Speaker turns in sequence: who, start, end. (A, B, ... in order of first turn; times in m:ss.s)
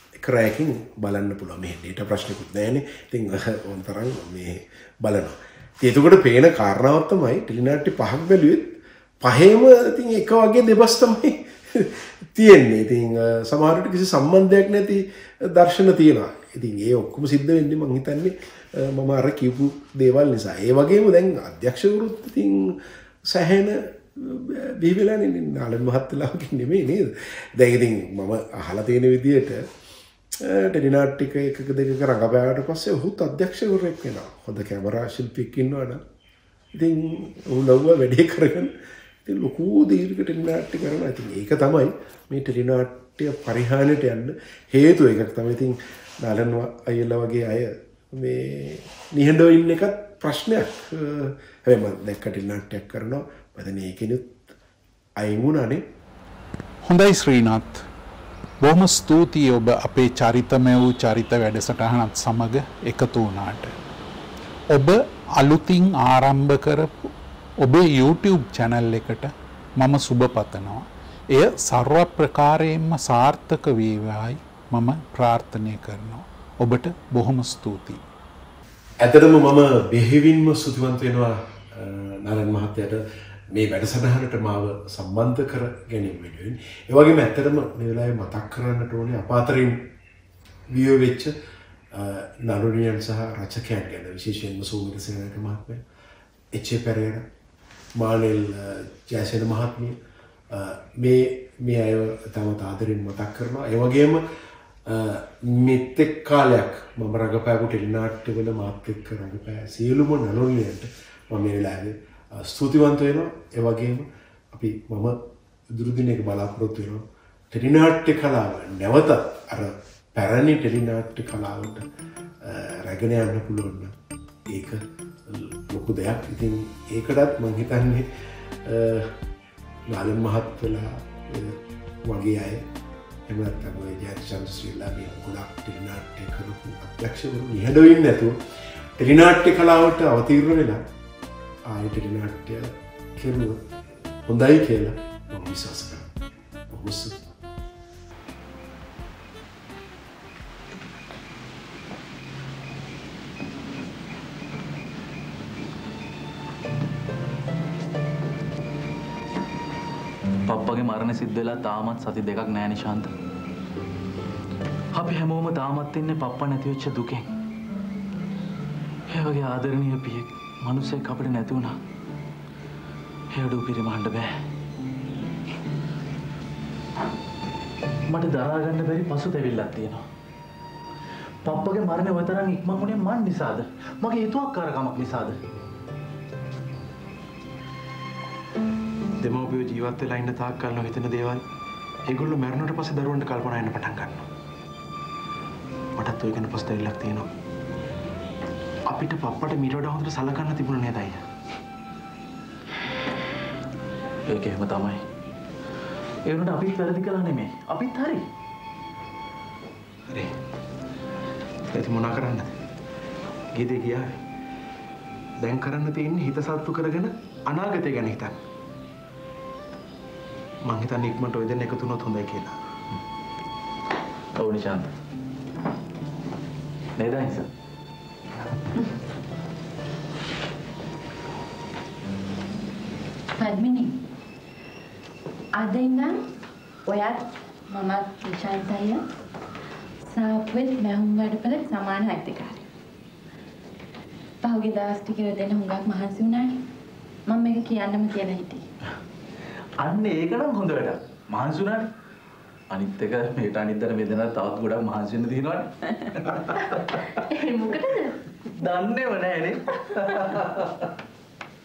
0:00.2-0:29.6 A
0:30.4-0:36.0 A
0:36.7-0:38.7 A
0:39.2-0:54.4 A
0:55.2-0:55.8 A
0:56.8-0:57.8 B
0:58.6-1:03.7 B
1:04.7-1:18.0 B
1:19.0-1:29.8 A
1:30.7-1:31.3 A
1:31.9-1:35.8 A
1:36.5-1:37.2 A
1:38.0-1:40.0 A
1:40.5-1:44.2 A
1:44.8-1:55.2 A
1:55.7-2:01.8 A
2:02.4-2:03.9 A
2:04.5-2:08.1 A
2:08.6-2:09.2 A
2:09.9-2:12.6 A
2:13.3-2:18.4 A
2:19.0-2:20.8 A
2:21.7-2:23.6 A
2:24.2-2:26.1 A
2:26.7-2:27.2 A
2:40.5-2:43.1 C
2:45.0-2:47.3 C
2:49.1-2:51.8 C
2:53.3-2:54.3 C
2:58.1-3:00.0 C
3:01.4-3:05.4 C
3:09.2-3:11.4 D
3:12.1-3:14.2 D
3:16.0-3:17.3 D
3:18.9-3:21.2 D
3:24.3-3:25.0 C
3:26.3-3:28.3 C
3:30.1-3:30.3 D
3:31.7-3:32.6 D
3:33.5-3:34.2 D
3:35.4-3:38.4 D
3:40.6-3:42.5 D
3:44.4-3:44.9 C
3:47.0-3:47.5 C
3:53.4-3:54.0 E
3:55.5-3:56.2 E
3:56.9-3:59.0 E
4:00.1-4:02.6 E
4:04.4-4:06.6 E
4:07.3-4:08.6 E
4:09.8-4:11.9 C
4:12.7-4:16.9 C
4:17.4-4:18.1 E
4:18.6-4:20.7 C